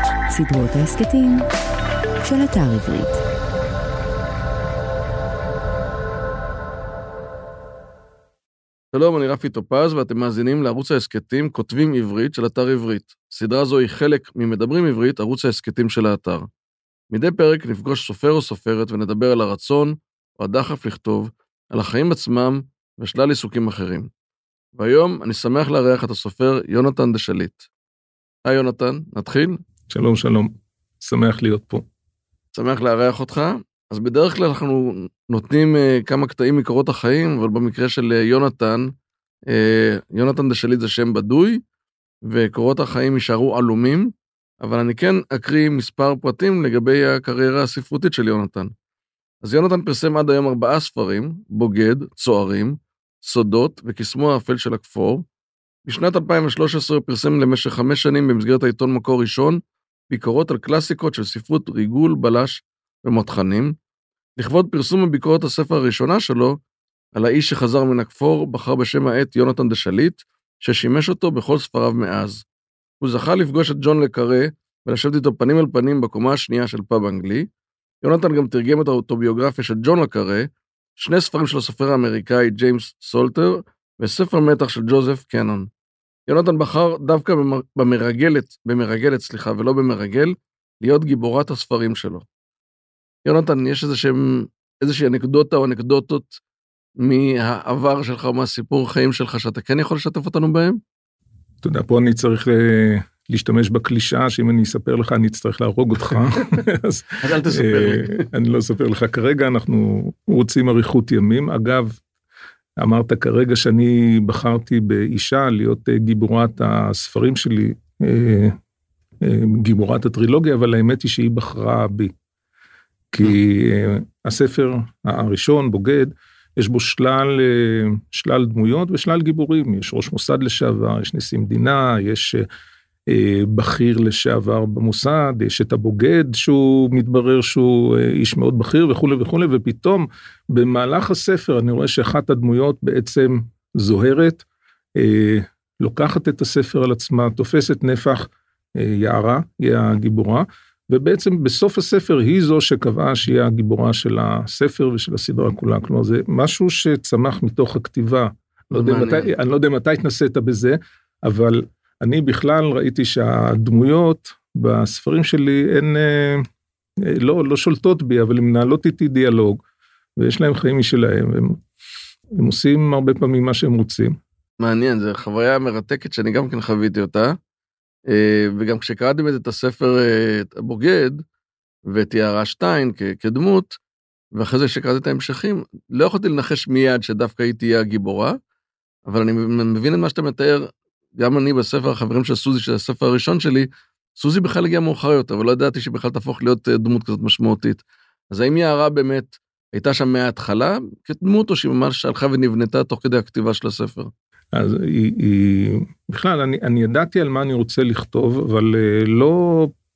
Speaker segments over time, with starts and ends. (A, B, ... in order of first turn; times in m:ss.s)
0:00.3-0:01.5 A
0:02.2-0:03.2 A
0:08.9-0:16.5 B
0:17.1-0:24.1 B
0:24.7-0:27.7 B
0:28.4-0:29.6 B
0:29.9-0:31.8 C
0:32.5-0:38.9 B
0:39.5-0:41.6 B
0:42.3-0:48.7 B
0:49.4-0:55.2 B
0:55.8-1:03.7 B
1:04.4-1:06.6 B
1:07.2-1:12.4 B
1:13.0-1:17.5 B
1:18.0-1:25.7 B
1:26.3-1:32.2 B
1:33.2-1:36.4 B
1:37.0-1:40.8 B
1:41.6-1:52.0 C
1:47.2-1:48.3 B
1:52.8-1:58.6 C
1:59.2-2:02.1 C
2:03.1-2:12.4 C
2:13.1-2:24.4 C
2:25.0-2:46.5 C
2:38.7-2:39.3 B
2:47.0-2:49.6 C
2:50.2-2:51.6 C
2:52.4-2:54.1 C
2:54.6-2:57.4 B
2:58.1-3:01.2 B
3:01.9-3:03.7 B
3:04.3-3:08.4 B
3:09.1-3:24.1 B
3:24.5-3:29.7 C